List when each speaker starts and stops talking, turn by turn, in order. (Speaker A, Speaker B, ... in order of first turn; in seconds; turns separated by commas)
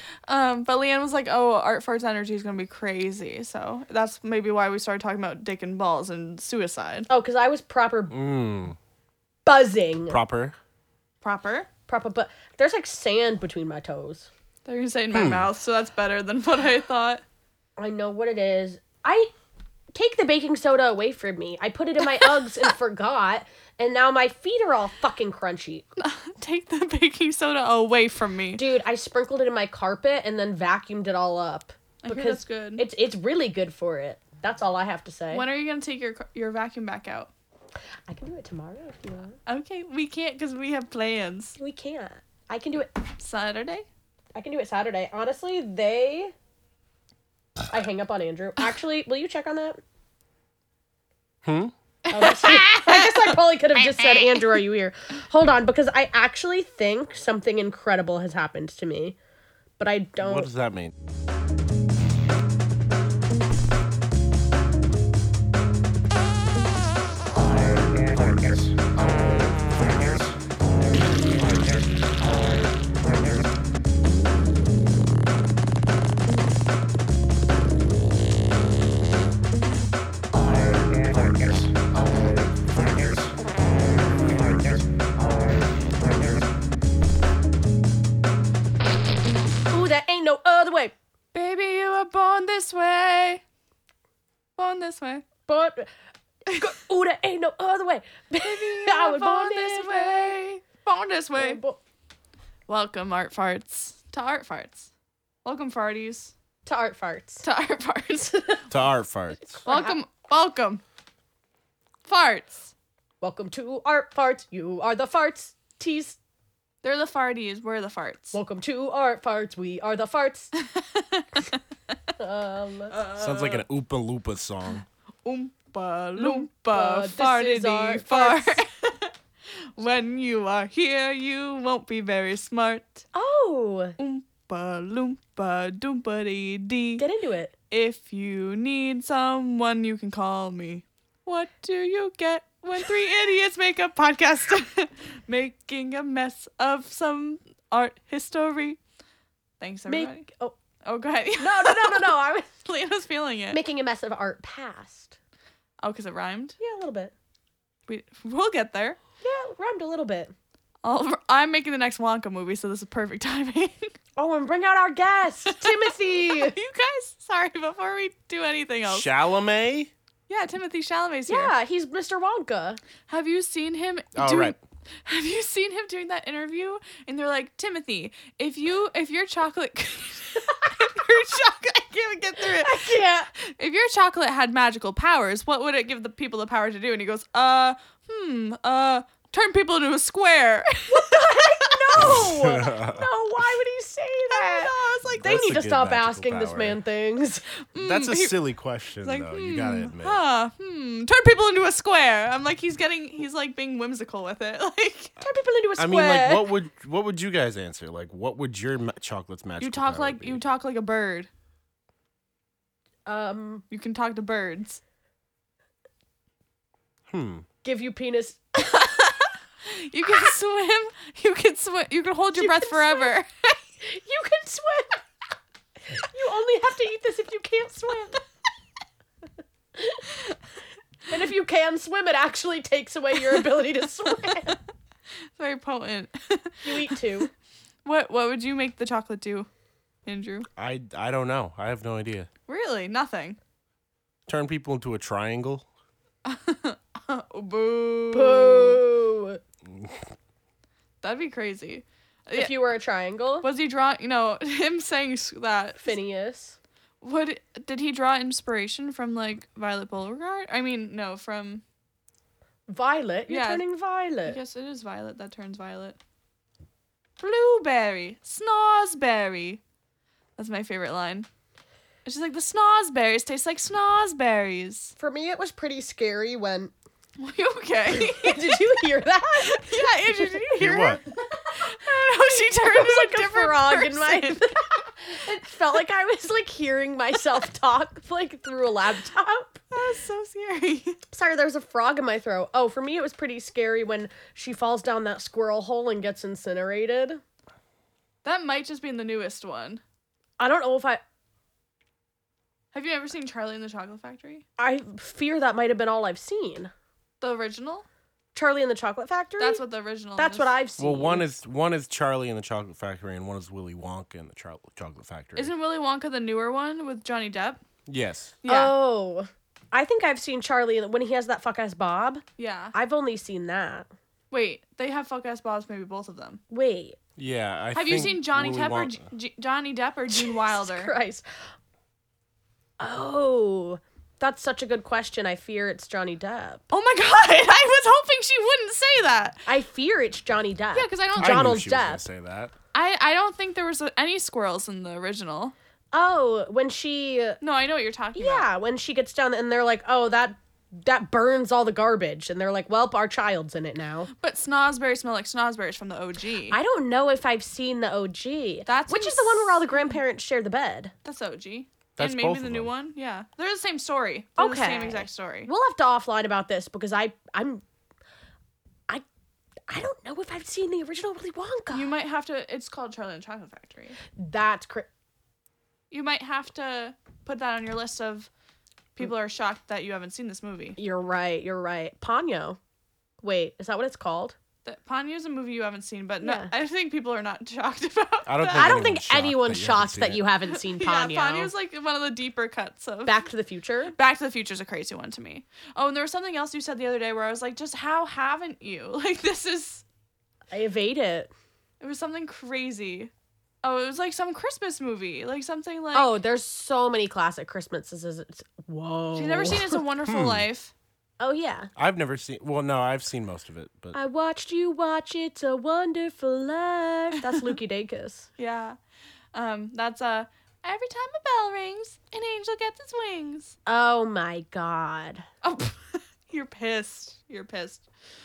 Speaker A: 0.3-7.1, Speaker B: 7.1-8.1, Speaker C: 8.1-8.8, Speaker B: 9.4-10.2, Speaker C: 10.1-10.6, Speaker A: 11.2-11.7, Speaker B: 11.9-14.3, Speaker A: 14.6-17.2, Speaker C: 15.1-15.5, Speaker B: 17.8-19.3, Speaker B: 19.9-25.9, Speaker A: 22.0-22.7, Speaker A: 26.0-28.6, Speaker B: 28.5-35.4, Speaker A: 32.0-32.8, Speaker A: 35.3-37.3, Speaker B: 38.1-39.4, Speaker A: 39.5-41.6, Speaker B: 41.6-42.9, Speaker A: 43.2-43.9, Speaker B: 44.3-46.3, Speaker B: 47.7-49.8, Speaker C: 51.4-51.7, Speaker A: 52.1-54.6, Speaker B: 52.1-59.2, Speaker B: 59.8-60.5, Speaker C: 60.2-60.9, Speaker B: 89.7-90.9, Speaker A: 91.3-93.4, Speaker A: 94.6-95.2, Speaker B: 95.5-95.9, Speaker B: 96.5-100.4, Speaker A: 98.4-101.6, Speaker B: 101.4-101.8, Speaker A: 102.7-104.9, Speaker A: 105.4-106.3, Speaker B: 106.6-107.4, Speaker A: 107.4-108.6, Speaker C: 108.7-109.6, Speaker B: 109.6-110.0, Speaker A: 109.6-110.8, Speaker A: 112.0-112.7, Speaker B: 113.2-116.2, Speaker A: 116.8-118.4, Speaker B: 118.3-120.5, Speaker A: 120.6-121.9, Speaker B: 122.2-123.0, Speaker A: 122.9-123.7, Speaker C: 123.2-124.8, Speaker A: 125.2-133.0, Speaker B: 126.2-128.6, Speaker B: 133.1-134.0, Speaker A: 134.0-137.0, Speaker B: 137.0-137.5, Speaker A: 137.7-148.8, Speaker A: 149.6-150.2, Speaker B: 149.9-150.5, Speaker A: 150.8-152.1, Speaker B: 151.4-152.5, Speaker A: 152.6-153.6, Speaker B: 153.5-155.2, Speaker A: 155.8-156.6, Speaker B: 156.6-157.1, Speaker A: 157.9-159.0, Speaker B: 159.2-160.3, Speaker A: 160.8-163.9, Speaker B: 164.2-166.6, Speaker A: 165.4-169.1, Speaker C: 168.8-169.9, Speaker A: 170.3-171.5, Speaker B: 171.3-172.8, Speaker A: 173.1-191.7, Speaker C: 174.1-174.6, Speaker B: 182.4-183.3, Speaker B: 190.9-197.5, Speaker C: 192.0-193.1, Speaker A: 194.3-195.3, Speaker C: 195.1-196.8, Speaker A: 197.7-198.4, Speaker C: 197.8-200.2, Speaker A: 199.0-205.1, Speaker B: 205.2-206.5, Speaker C: 205.8-210.4, Speaker A: 209.6-211.3, Speaker B: 213.1-213.6, Speaker A: 213.7-214.8, Speaker C: 217.1-217.4, Speaker B: 217.6-218.4, Speaker A: 218.6-223.6, Speaker B: 222.3-223.1, Speaker B: 223.8-225.0, Speaker B: 225.9-228.2, Speaker B: 229.8-230.1, Speaker B: 231.1-234.6, Speaker A: 235.4-237.0, Speaker B: 236.6-237.3, Speaker A: 237.8-239.5, Speaker A: 240.1-240.4, Speaker C: 240.6-242.3, Speaker A: 242.5-243.4, Speaker C: 244.3-245.7, Speaker A: 246.2-248.8, Speaker B: 248.1-249.4, Speaker C: 249.7-250.0, Speaker A: 251.0-252.5, Speaker B: 252.3-253.5, Speaker A: 253.4-255.9, Speaker B: 255.8-256.6, Speaker A: 257.0-261.6, Speaker B: 262.7-264.4, Speaker A: 263.3-263.6, Speaker A: 264.2-266.0, Speaker A: 267.2-269.6, Speaker A: 270.4-271.3, Speaker A: 272.0-274.9, Speaker B: 275.0-276.7, Speaker A: 277.2-284.5, Speaker B: 277.9-280.4, Speaker C: 280.6-281.0, Speaker B: 281.3-289.6, Speaker A: 289.7-291.0, Speaker B: 291.1-297.2, Speaker A: 298.2-299.8, Speaker B: 300.4-301.0, Speaker A: 302.7-304.4, Speaker B: 304.6-306.7, Speaker A: 307.2-307.9, Speaker B: 308.3-309.6, Speaker A: 309.4-310.6, Speaker B: 310.2-311.3, Speaker C: 310.8-315.5, Speaker A: 315.4-317.6, Speaker C: 317.9-318.4, Speaker A: 318.4-318.7, Speaker B: 318.4-323.9, Speaker A: 322.4-322.7, Speaker A: 324.3-326.4, Speaker B: 326.5-327.0, Speaker C: 327.2-329.1, Speaker A: 327.7-330.9, Speaker B: 330.1-331.2, Speaker B: 332.8-336.6, Speaker A: 336.7-339.4, Speaker B: 339.5-342.1, Speaker A: 340.7-341.5, Speaker C: 341.2-342.5, Speaker A: 342.7-345.5, Speaker B: 345.9-347.4, Speaker A: 347.4-348.4, Speaker B: 348.1-354.1, Speaker A: 354.1-356.6, Speaker B: 356.5-360.9, Speaker A: 358.6-360.0, Speaker A: 361.0-365.5, Speaker C: 362.0-362.7, Speaker B: 364.4-367.6, Speaker B: 369.7-371.9, Speaker A: 371.7-374.0, Speaker B: 374.1-374.9, Speaker A: 375.9-378.3, Speaker A: 378.9-380.8, Speaker B: 380.8-382.6, Speaker B: 383.2-384.4, Speaker A: 384.6-388.8, Speaker B: 386.2-386.5, Speaker C: 388.2-390.2, Speaker B: 388.5-391.5, Speaker A: 390.5-393.3, Speaker B: 393.1-393.9, Speaker A: 393.9-399.8, Speaker B: 400.5-401.3, Speaker A: 401.8-403.1, Speaker A: 403.6-406.1, Speaker B: 405.9-409.8, Speaker A: 409.1-410.7, Speaker C: 410.1-410.5, Speaker B: 411.2-411.7, Speaker C: 411.8-414.0, Speaker B: 413.9-418.3, Speaker A: 418.4-418.8, Speaker A: 419.3-423.5, Speaker B: 423.6-425.2, Speaker A: 425.4-427.8